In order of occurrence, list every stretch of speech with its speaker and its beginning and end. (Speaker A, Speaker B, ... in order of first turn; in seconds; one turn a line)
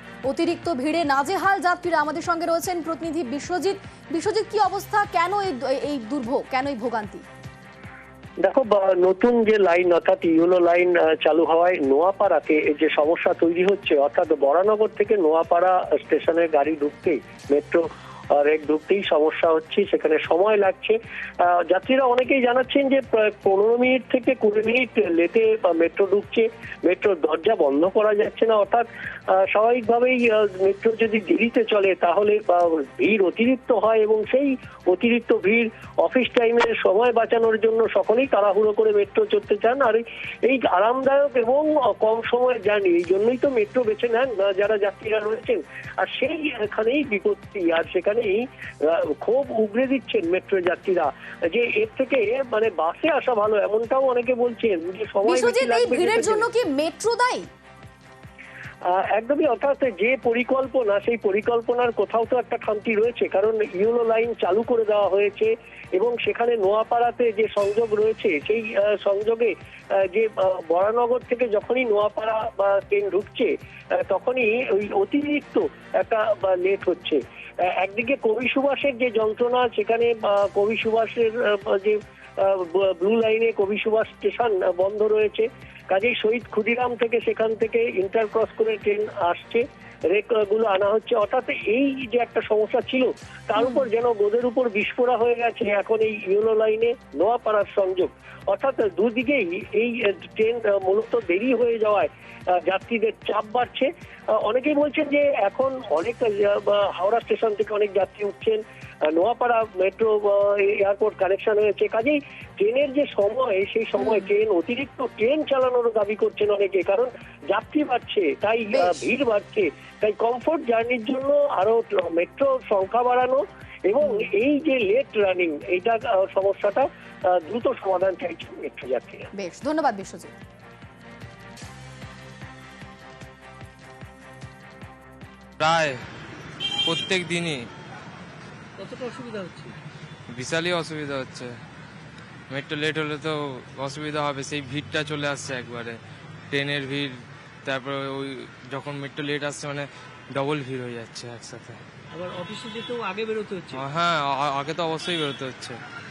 Speaker A: 0.3-7.2
Speaker B: 8.4-56.5
Speaker A: 55.2-57.5
Speaker B: 58.9-77.2
Speaker B: 77.8-129.3
Speaker A: 93.6-93.9
Speaker A: 114.0-114.3
Speaker A: 118.7-119.1
Speaker A: 129.4-130.3
Speaker C: 135.6-136.0
Speaker C: 136.9-137.6
Speaker D: 138.8-139.8
Speaker C: 140.3-141.5
Speaker C: 142.5-146.0
Speaker C: 146.5-147.1
Speaker C: 147.7-151.8
Speaker D: 152.1-153.8
Speaker C: 153.8-155.8